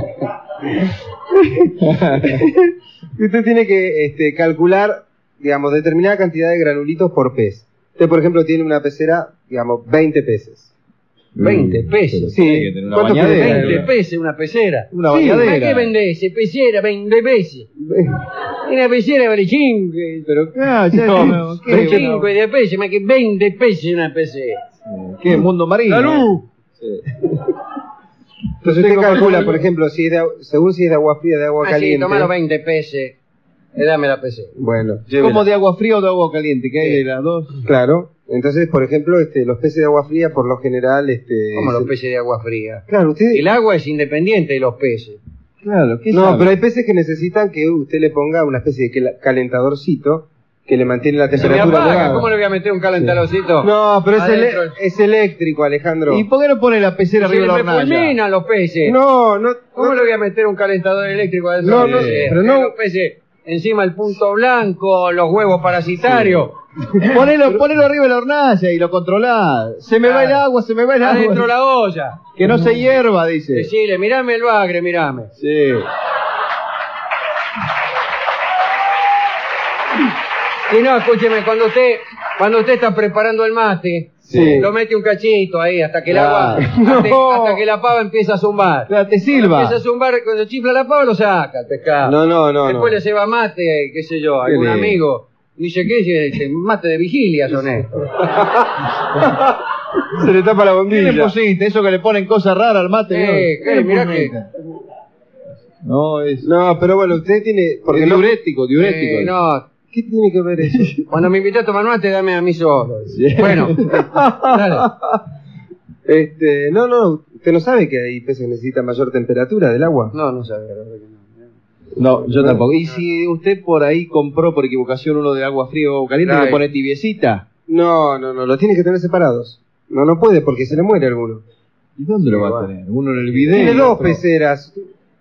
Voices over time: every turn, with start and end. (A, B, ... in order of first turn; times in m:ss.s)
0:01.4-0:10.7 A
0:01.8-0:02.5 B
0:11.3-0:13.9 B
0:11.4-0:12.3 C
0:12.3-0:13.9 A
0:13.2-0:17.7 C
0:14.9-0:15.9 B
0:15.1-0:15.5 A
0:17.8-0:18.2 A
0:18.7-0:20.3 C
0:20.2-0:22.2 B
0:21.0-0:22.3 A
0:21.6-0:24.6 C
0:24.8-0:27.0 B
0:25.9-0:26.4 A
0:28.6-0:32.3 A
0:28.6-0:29.6 B
0:31.6-0:33.2 C
0:33.7-0:34.5 C
0:34.6-0:35.4 A
0:35.1-0:37.6 B
0:37.6-0:41.9 A
0:41.5-0:45.2 C
0:42.9-0:43.4 A
0:45.6-0:46.5 B
0:46.1-0:52.3 A
0:51.4-0:54.8 C
0:53.0-0:56.2 A
0:56.1-0:58.2 B
0:57.2-0:59.0 C
0:58.8-1:00.1 A
0:59.8-1:06.5 C
1:01.6-1:02.7 A
1:01.7-1:02.3 B
1:07.0-1:11.5 B
1:10.0-1:10.4 C
1:11.0-1:12.2 C
1:12.4-1:13.7 B
1:13.5-1:15.3 C
1:15.4-1:15.8 B
1:20.7-1:38.0 C
1:24.2-1:24.6 B
1:24.3-1:24.7 A
1:26.1-1:26.6 B
1:26.1-1:27.6 A
1:28.9-1:29.8 B
1:32.0-1:33.0 A
1:34.4-1:35.0 A
1:38.2-1:41.3 A
1:40.9-1:44.5 B
1:43.1-1:44.3 C
1:45.8-1:46.5 B
1:46.4-1:48.3 A
1:47.9-1:49.3 B
1:48.8-1:49.6 C
1:49.9-1:51.1 A
1:51.1-1:53.9 C
1:53.1-1:54.1 B
1:53.9-1:54.8 A
1:54.4-1:54.9 C
1:56.0-2:00.1 A
2:00.1-2:01.4 C
2:02.0-2:07.4 B
2:02.3-2:02.6 A
2:06.2-2:06.6 A
2:07.7-2:11.4 A
2:12.0-2:14.2 B
2:13.4-2:14.9 A
2:13.6-2:13.8 C